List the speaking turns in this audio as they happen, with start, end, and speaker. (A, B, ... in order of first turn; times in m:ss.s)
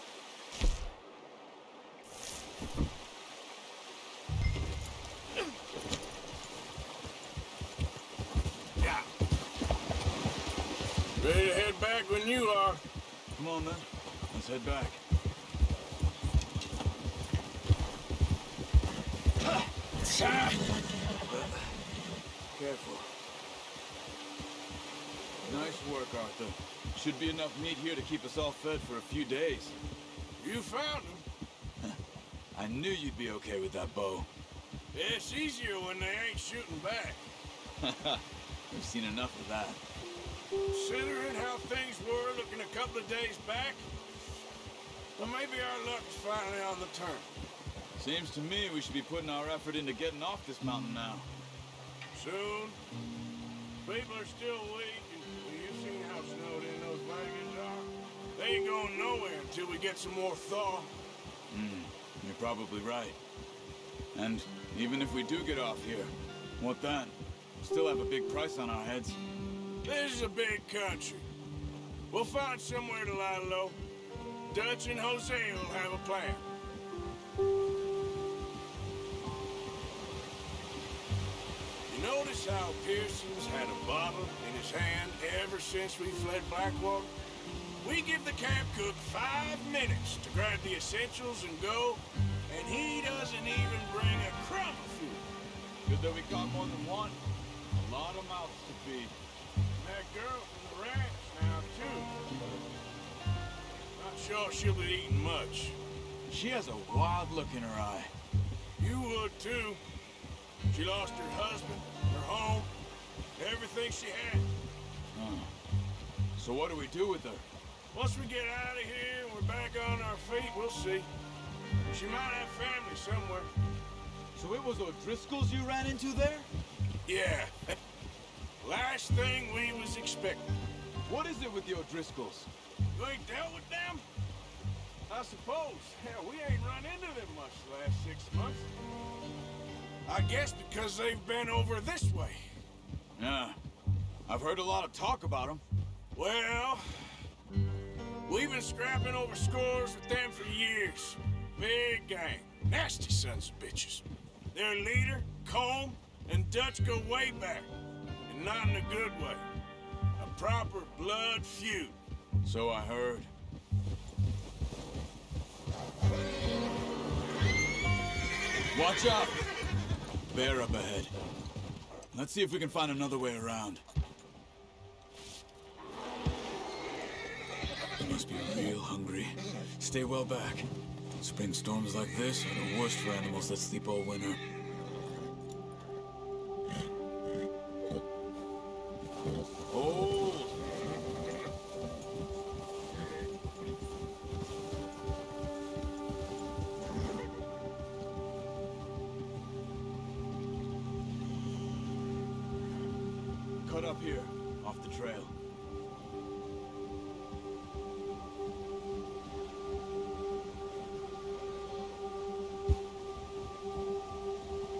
0:11.2-0:12.8 A
0:13.4-0:15.0 B
0:21.3-0:21.6 B
0:22.5-0:23.1 B
0:25.4-0:29.8 B
0:30.4-0:31.2 A
0:32.5-0:34.3 B
0:34.9-0:37.2 A
0:37.8-0:39.8 B
0:40.7-0:43.9 A
0:45.2-0:47.3 A
0:48.0-0:51.3 B
0:52.1-0:52.8 A
0:53.8-1:00.9 A
1:01.5-1:03.2 B
1:04.1-1:09.2 B
1:09.8-1:11.3 A
1:12.1-1:13.8 A
1:14.5-1:16.4 A
1:21.9-1:27.1 A
1:27.8-1:35.2 A
1:35.8-1:37.2 B
1:37.7-1:39.2 B
1:39.8-1:42.1 A
1:43.9-1:45.8 A
1:46.3-1:48.1 B
1:48.8-1:49.8 A
1:50.7-1:52.7 A
1:53.4-1:54.5 A
1:55.1-1:55.5 B
1:56.3-1:57.5 B
1:57.9-2:01.1 A
2:01.9-2:03.5 A
2:04.3-2:06.5 B
2:07.0-2:07.7 A
2:08.6-2:10.5 A
2:11.0-2:12.5 B
2:12.9-2:14.0 A
2:15.1-2:18.7 A
2:20.0-2:22.4 A
2:23.2-2:23.6 B
2:24.2-2:25.6 B
2:26.1-2:27.2 A
2:28.2-2:37.7 A
2:38.3-2:39.4 A
2:40.2-2:42.0 A
2:42.4-2:43.3 B
2:48.7-2:49.4 B
2:50.3-2:51.1 B
2:52.1-2:53.8 B
2:58.0-3:00.7 B
3:01.2-3:04.4 B
3:09.7-3:10.6 B
3:23.6-3:25.3 B